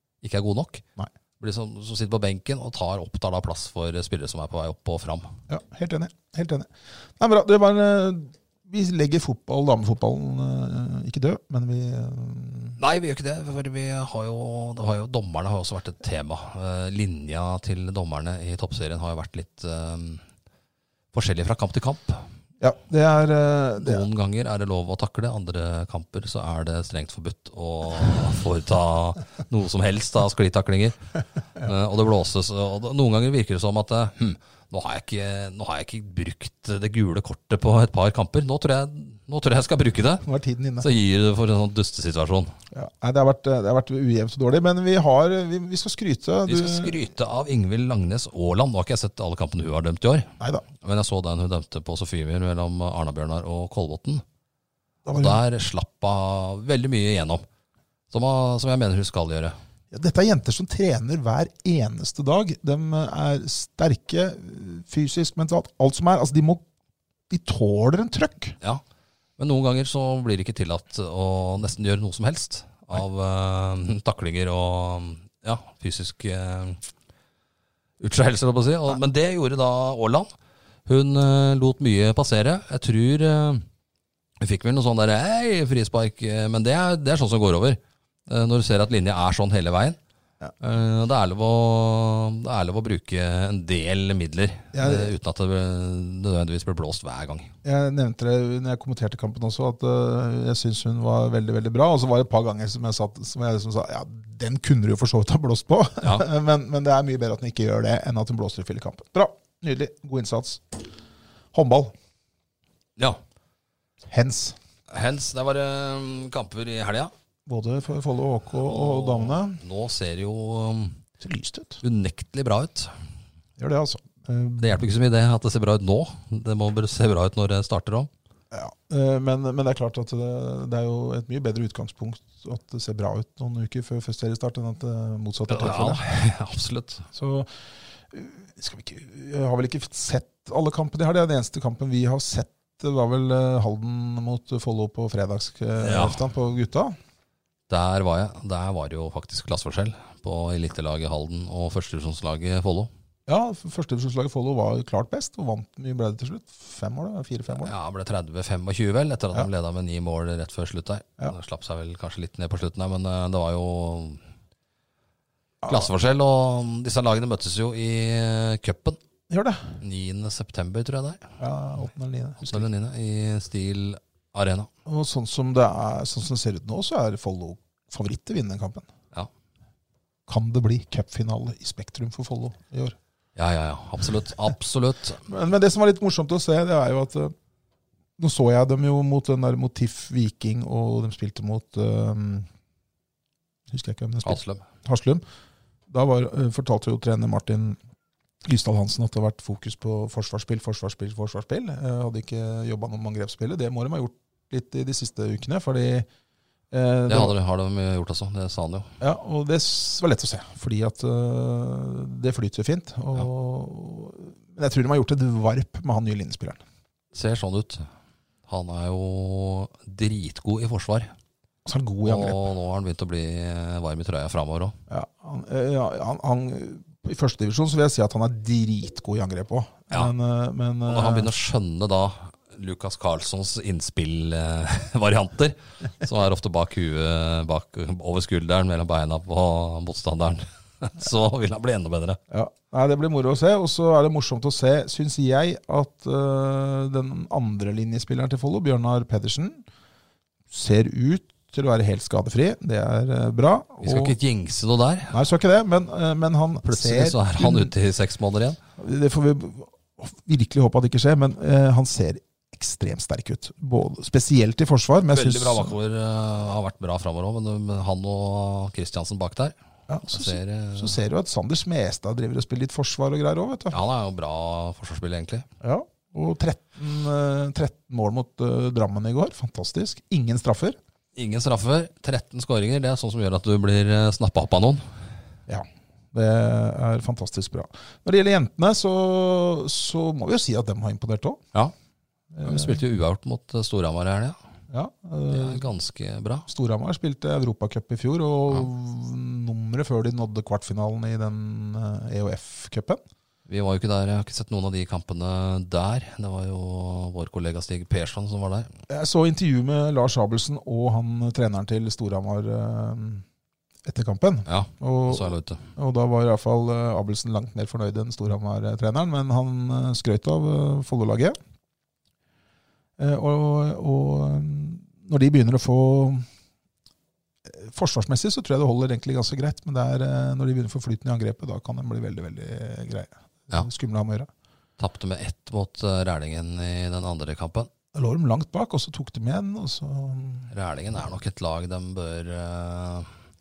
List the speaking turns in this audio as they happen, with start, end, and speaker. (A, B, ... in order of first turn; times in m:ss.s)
0:00.2-0:00.8 A
0:01.4-0:05.3 A
0:05.5-0:12.8 B
0:12.8-0:20.2 A
0:21.1-0:22.2 A
0:22.6-0:24.0 B
0:23.8-0:31.0 A
0:31.6-0:40.2 A
0:40.2-0:40.9 B
0:40.8-0:42.5 A
0:42.7-0:47.0 B
0:46.5-0:54.2 A
0:50.4-0:50.6 B
0:55.1-0:55.4 B
0:55.2-0:57.4 A
0:58.1-0:59.6 A
0:59.9-1:06.6 B
1:07.3-1:08.6 B
1:09.4-1:16.8 A
1:18.0-1:20.3 A
1:20.9-1:23.6 A
1:24.4-1:30.0 A
1:30.6-1:37.5 A
1:34.7-1:35.1 B
1:37.6-1:50.9 B
1:51.5-1:51.9 B
1:54.1-1:54.6 B
1:54.9-1:57.1 A
1:57.5-1:59.6 B
1:58.7-2:01.0 A
2:01.2-2:01.8 B
2:01.8-2:02.9 A
2:03.6-2:04.8 B
2:04.6-2:08.1 A
2:08.5-2:16.0 B
2:15.5-2:17.1 A
2:17.1-2:17.5 B
2:18.1-2:27.0 B
2:25.8-2:26.2 A
2:27.7-2:32.9 A
2:33.3-2:37.7 B
2:37.5-2:44.2 A
2:45.6-2:45.9 B
2:45.7-2:49.0 A
2:49.3-2:49.8 B
2:49.8-2:51.3 A
2:51.4-2:52.7 B
2:52.4-2:54.7 A
2:54.9-2:58.9 B
3:00.3-3:03.0 B
3:03.4-3:05.2 A
3:05.3-3:07.3 B
3:08.2-3:12.5 B
3:13.7-3:15.2 B
3:14.2-3:14.6 A
3:15.9-3:17.8 B
3:18.4-3:26.1 B
3:26.7-3:27.4 B
3:27.1-3:28.9 A
3:29.0-3:36.6 B
3:37.1-3:37.9 A
3:38.5-3:41.1 A
3:41.6-3:42.4 B
3:42.0-3:44.8 A
3:44.9-3:51.3 B
3:50.9-4:02.2 A
4:02.3-4:09.6 B
4:10.5-4:14.2 B
4:13.8-4:15.2 A
4:15.1-4:17.7 B
4:16.6-4:18.6 A
4:18.8-4:25.8 B
4:25.1-4:31.0 A
4:29.9-4:33.8 B
4:33.7-4:35.5 A
4:35.6-4:40.8 B
4:41.2-4:44.8 A
4:45.5-4:51.4 B
4:52.3-4:52.8 B
4:52.4-4:54.4 A
4:54.7-4:55.6 B
4:55.3-4:56.5 A
4:56.5-5:03.0 B
5:03.5-5:08.7 A
5:08.9-5:13.2 B
5:13.8-5:21.4 B
5:14.5-5:15.7 A
5:23.0-5:26.3 B
5:27.5-5:34.3 B
5:34.8-5:37.7 A
5:37.9-5:40.5 B
5:40.5-5:43.1 A